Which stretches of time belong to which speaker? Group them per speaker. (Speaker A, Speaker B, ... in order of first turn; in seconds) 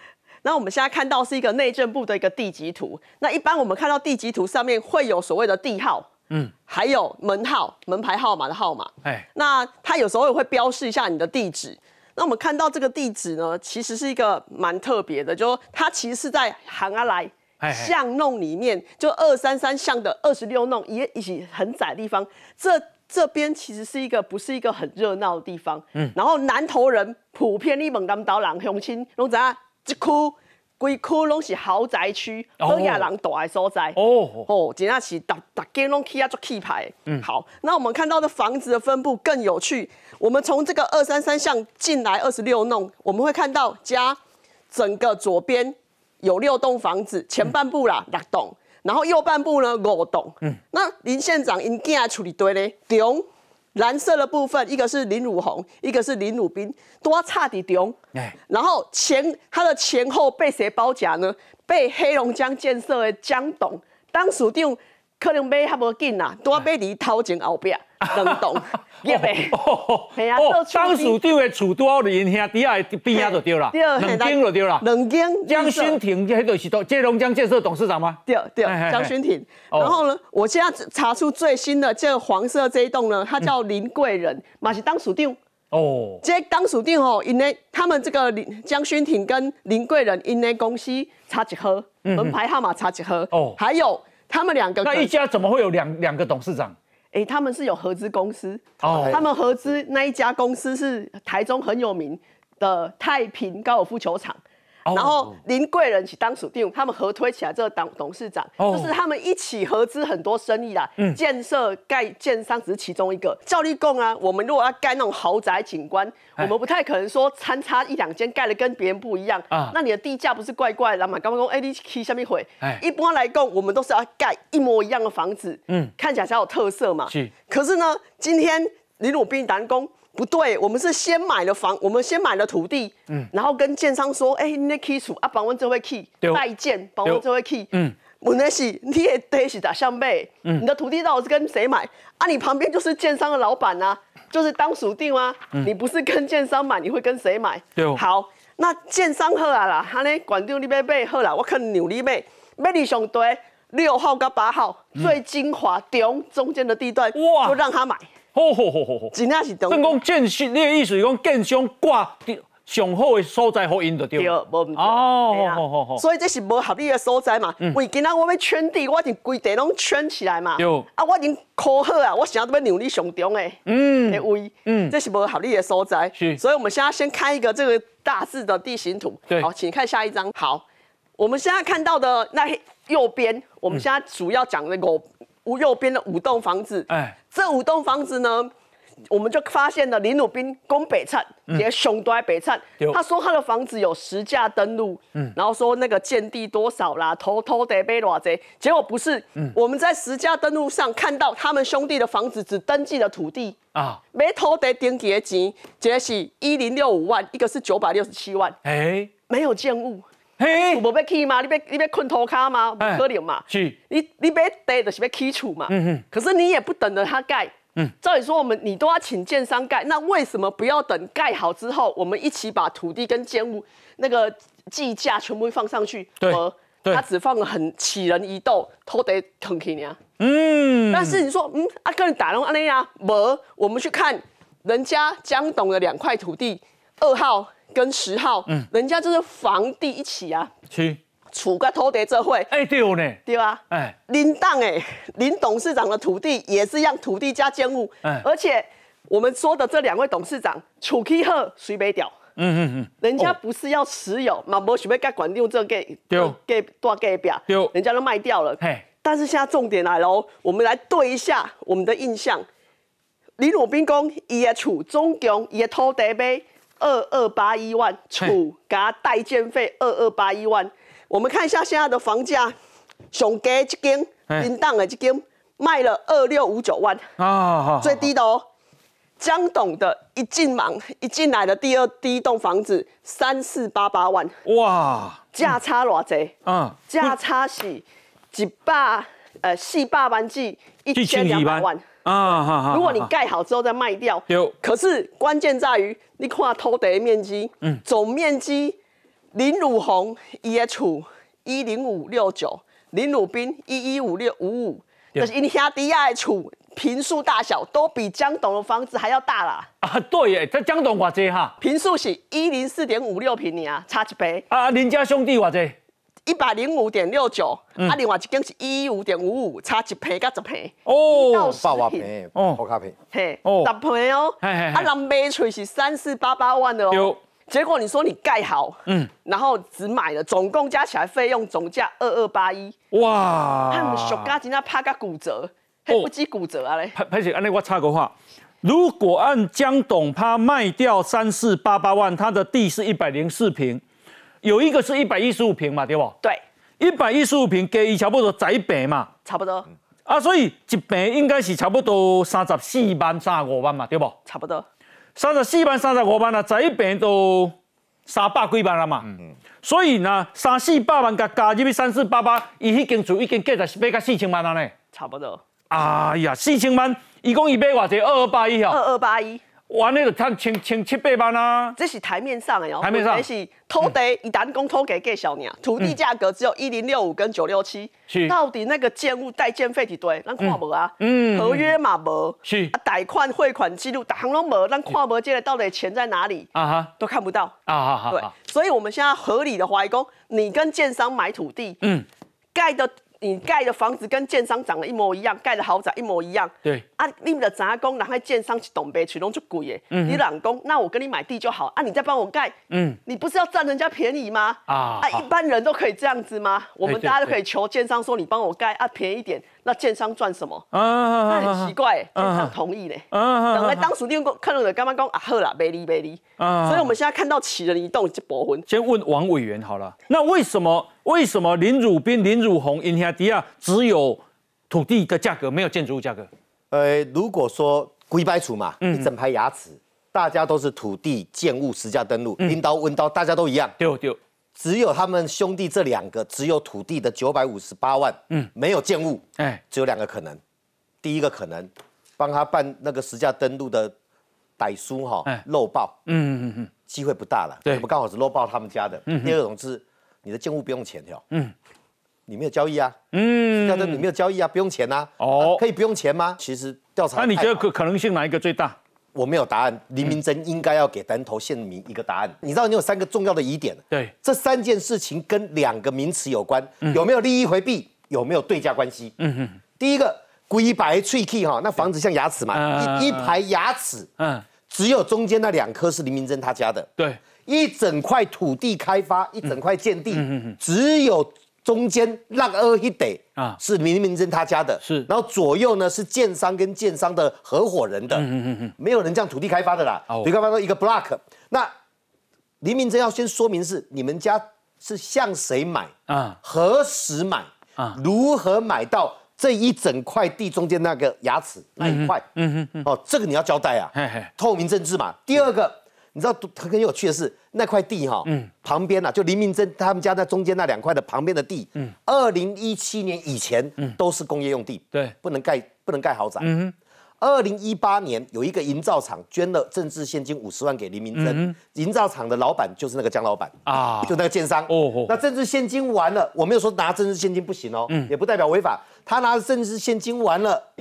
Speaker A: 0.4-6.1, 6.7-44.2, 44.7-58.0, 58.5-69.6, 70.1-71.2, 73.1-76.0, 78.3-85.4, 86.2-95.1, 97.1-104.4, 104.9-158.1, 159.1-159.9, 164.2-180.6, 181.2-188.5, 189.1-203.6, 204.1-208.6, 209.3-210.1, 210.6-230.0, 230.9-240.5, 241.3-242.5, 243.3-252.1, 253.0-262.4, 263.4-272.5, 273.1-277.1, 277.8-278.5, 279.2-284.4, 285.4-286.4, 286.9-291.9, 292.7-298.8, 299.3-309.7, 311.6-314.4, 316.3-322.1, 323.1-332.8, 333.7-336.9, 349.2-349.7, 354.3-354.7, 364.9-365.4, 368.7-369.4, 371.8-387.6, 388.1-391.8, 392.6-410.7, 411.3-418.7
Speaker B: 17.6-17.9, 32.6-33.1, 34.0-34.5, 68.0-74.8, 75.5-79.1, 79.7-80.0, 85.7-86.2, 92.0-92.4, 93.3-93.6, 94.8-96.8, 98.8-99.2, 104.9-105.3, 108.6-108.9, 137.1-138.0, 147.8-148.0, 157.1-157.6, 158.3-159.1, 159.7-166.0, 170.6-170.9, 173.7-174.9, 186.9-187.2, 203.7-204.0, 208.6-209.1, 210.4-210.8, 212.8-213.8, 215.7-216.0, 226.2-227.0, 230.2-231.2, 240.7-241.0, 242.5-244.0, 252.4-253.3, 256.1-256.4, 257.5-257.7, 258.6-258.9, 277.2-278.1, 284.4-285.5, 286.4-287.2, 290.9-293.1, 294.3-294.5, 309.8-311.6, 314.5-315.8, 320.9-321.6, 322.4-322.6, 323.4-323.7, 324.4-324.9, 326.9-327.2, 332.9-334.3, 336.9-343.8, 344.4-346.2, 346.8-349.1, 350.1-354.2, 355.2-357.5, 358.1-359.1, 359.6-364.7, 365.7-368.8, 369.7-371.8, 372.8-373.2, 378.1-378.4, 380.4-381.7, 382.4-382.7, 386.5-386.9, 387.7-388.3, 399.9-400.2, 402.7-403.0, 404.7-405.3, 406.8-407.4, 410.7-412.5, 413.1-413.9, 416.4-416.9, 418.7-426.3, 428.8-429.1, 433.8-434.2, 446.1-446.7, 449.1-449.4, 453.1-454.0, 455.2-455.6, 457.2-458.8, 469.2-469.6, 472.5-473.3, 474.2-474.4, 480.1-480.6, 484.8-485.1, 488.1-488.7, 496.1-496.4, 501.8-502.9, 503.9-504.3, 508.2-508.5, 516.4-516.7, 521.1-521.6, 523.7-525.2
Speaker C: 98.8-99.4, 321.6-323.0, 426.7-433.8, 434.6-440.4, 441.0-443.9, 444.6-446.0, 446.9-451.2, 452.3-453.0, 453.6-457.6, 459.1-469.2, 469.8-474.1, 474.7-476.9, 477.5-488.3, 488.8-491.7, 492.6-502.2, 502.8-516.5, 517.2-530.7